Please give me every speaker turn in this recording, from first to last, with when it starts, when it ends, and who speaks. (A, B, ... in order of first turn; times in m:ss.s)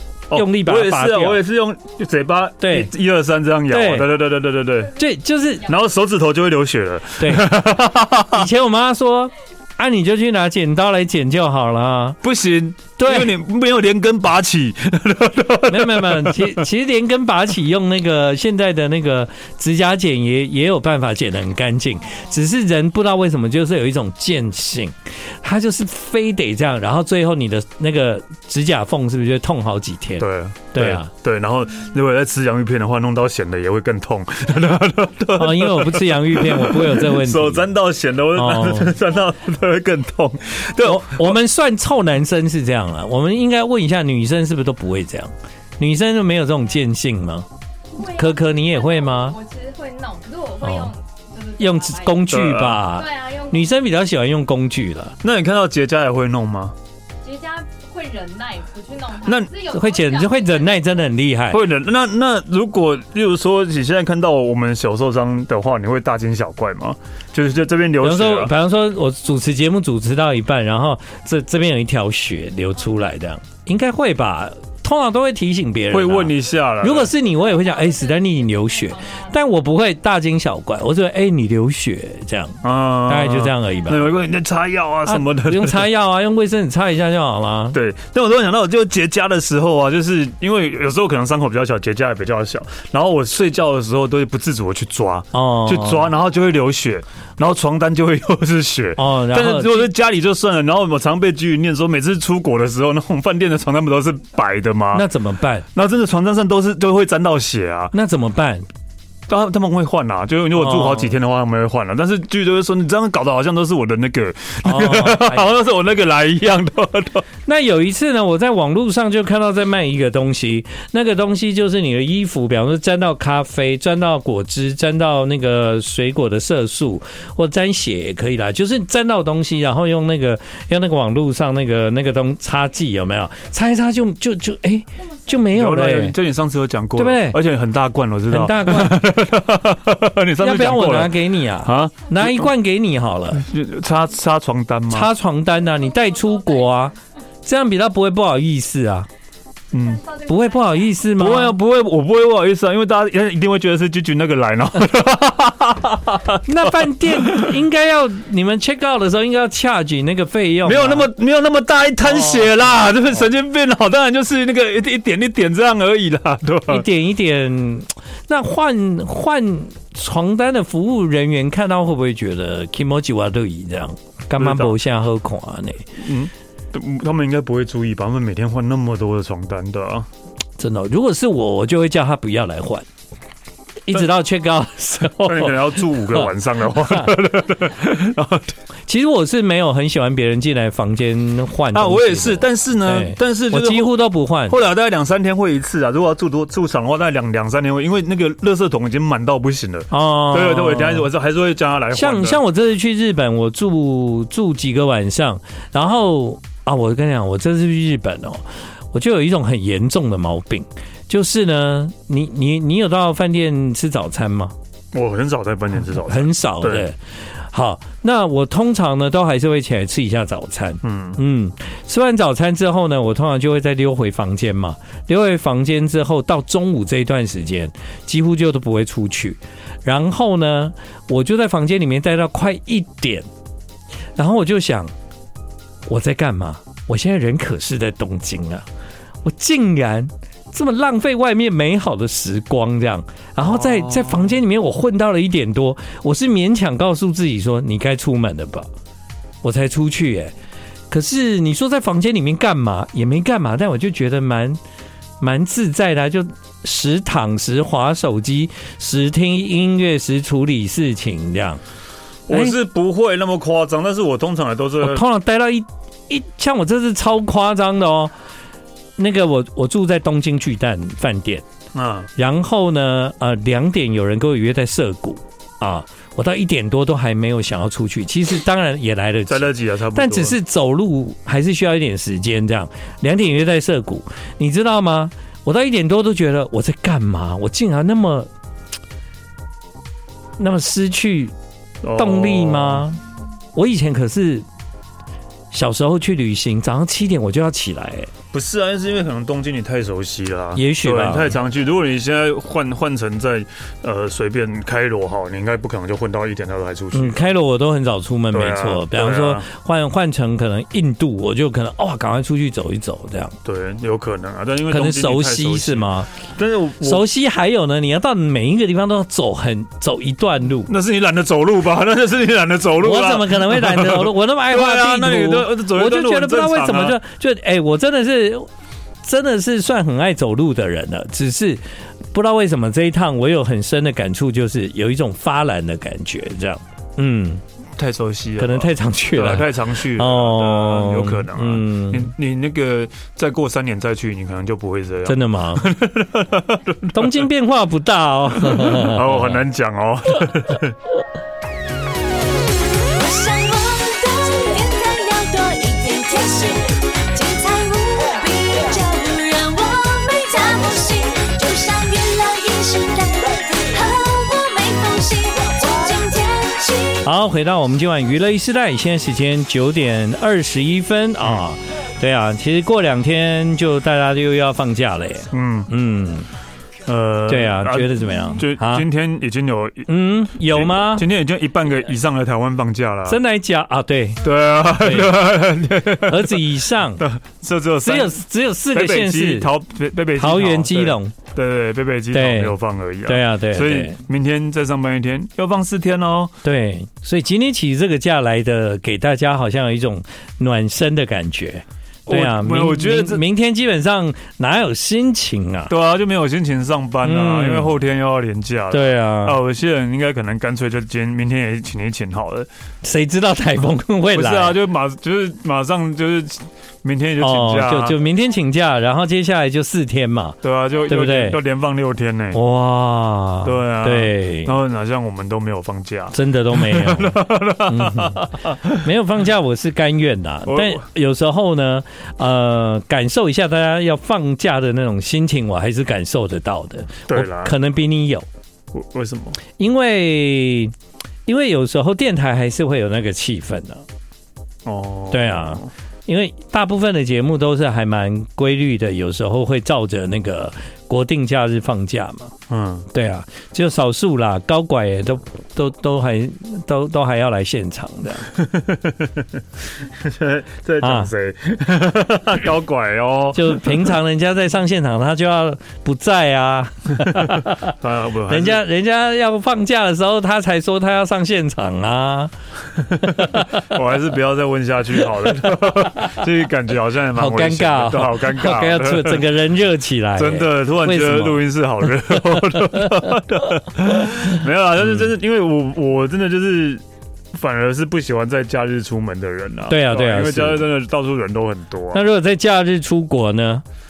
0:00.3-0:04.9 A
0:00.3-0:01.4 B
0:02.6-0:02.9 B
0:03.7-0:04.2 B
0:05.0-0:05.7 B
0:05.7-0:08.5 A
0:07.2-0:07.5 B
0:08.3-0:12.2 B
0:12.2-0:16.6 A
0:13.0-0:13.3 B
0:15.7-0:31.1 B
0:30.2-0:41.3 A
0:35.3-0:37.7 B
0:38.3-0:39.0 B
0:40.8-0:47.4 B
0:47.9-0:52.2 C
0:48.2-0:49.4 B
0:50.6-0:50.9 B
0:51.6-0:55.1 B
0:52.3-0:52.8 A
0:52.9-0:53.7 C
0:55.2-0:56.7 A
0:57.2-1:01.0 C
0:59.2-0:59.5 A
0:59.7-1:01.6 B
1:01.5-1:08.5 A
1:08.0-1:24.1 B
1:15.9-1:17.1 A
1:17.1-1:19.4 C
1:22.6-1:25.9 A
1:25.1-1:27.8 B
1:27.7-1:45.0 A
1:35.3-1:36.1 B
1:39.0-1:39.9 B
1:44.9-1:45.6 B
1:45.7-1:47.9 A
1:47.9-1:48.6 B
1:49.3-1:57.2 A
1:50.5-1:51.1 B
1:54.6-1:55.5 B
1:57.4-2:16.2 B
2:15.5-2:22.5 A
2:17.0-2:17.4 B
2:18.3-2:19.0 B
2:20.4-2:23.4 B
2:23.4-2:25.1 A
2:24.9-2:29.1 B
2:25.7-2:26.7 C
2:29.7-2:30.0 A
2:29.9-2:30.9 C
2:30.3-2:31.6 B
2:31.2-2:37.5 A
2:36.4-2:41.1 B
2:40.6-2:46.8 A
2:42.0-2:42.7 B
2:46.7-2:55.9 B
2:54.4-2:54.8 A
2:56.0-3:00.1 A
3:00.6-3:02.8 B
3:03.9-3:05.6 B
3:05.2-3:08.5 A
3:08.9-3:14.6 B
3:11.7-3:22.4 A
3:19.9-3:21.1 B
3:21.9-3:34.5 B
3:34.9-3:36.9 A
3:36.0-3:37.0 B
3:37.5-3:53.3 B
3:40.8-3:41.2 A
3:54.2-3:54.9 B
3:55.9-3:58.6 B
3:59.2-4:08.7 B
4:03.4-4:04.4 A
4:09.4-4:10.3 B
4:10.9-4:14.6 B
4:15.2-4:21.6 B
4:22.3-4:25.0 A
4:22.3-4:22.5 B
4:24.8-4:28.1 B
4:29.0-4:31.4 B
4:31.7-4:32.1 A
4:32.2-4:48.3 B
4:39.3-4:40.3 A
4:50.4-4:51.3 B
4:51.8-4:52.8 A
4:52.0-4:53.0 B
4:53.5-4:54.4 B
4:55.5-4:58.1 B
4:58.3-5:07.3 A
5:00.6-5:01.4 B
5:06.9-5:13.3 B
5:08.3-5:09.4 A
5:13.4-5:17.0 A
5:14.7-5:16.1 B
5:16.8-5:20.7 B
5:20.7-5:27.0 A
5:22.8-5:28.5 B
5:29.0-5:31.6 B
5:32.1-5:37.4 B
5:37.8-5:47.3 A
5:38.4-5:42.1 B
5:45.0-5:45.7 B
5:46.9-5:49.4 B
5:48.4-5:50.8 A
5:52.7-6:07.0 D
6:07.0-6:16.3 B
6:15.3-6:15.7 A
6:16.8-6:23.2 A
6:17.3-6:18.8 B
6:19.9-6:21.1 B
6:23.1-6:24.2 B
6:24.2-6:26.4 A
6:24.8-6:25.2 B
6:26.0-6:27.0 B
6:27.0-6:28.2 A
6:27.8-6:29.5 B
6:28.7-6:36.3 A
6:30.2-6:31.1 B
6:32.1-6:34.0 B
6:36.4-6:45.7 B
6:42.1-6:43.2 A
6:45.7-6:52.5 A
6:47.0-6:47.8 B
6:48.7-6:49.4 B
6:52.8-6:54.6 B
6:54.1-6:57.9 A
6:57.2-7:01.4 B
7:00.4-7:02.4 A
7:02.3-7:04.5 B
7:03.4-7:08.8 A
7:06.1-7:18.2 B
7:10.5-7:10.8 A
7:17.1-7:17.5 A
7:18.7-7:19.4 A
7:19.6-7:20.7 B
7:21.2-7:23.8 B
7:24.6-7:25.7 A
7:25.1-7:32.3 B
7:32.5-7:32.9 A
7:32.9-7:38.3 B
7:38.4-7:39.2 A
7:39.9-7:43.9 A
7:40.8-7:41.1 B
7:43.3-7:47.7 B
7:47.1-7:48.6 A
7:48.3-7:52.3 B
7:53.0-7:59.2 A
7:53.0-7:53.6 B
7:55.4-7:56.1 B
7:57.2-8:03.2 B
8:00.2-8:06.8 A
8:03.9-8:05.0 B
8:07.3-8:12.0 A
8:09.7-8:10.6 B
8:11.9-8:13.6 B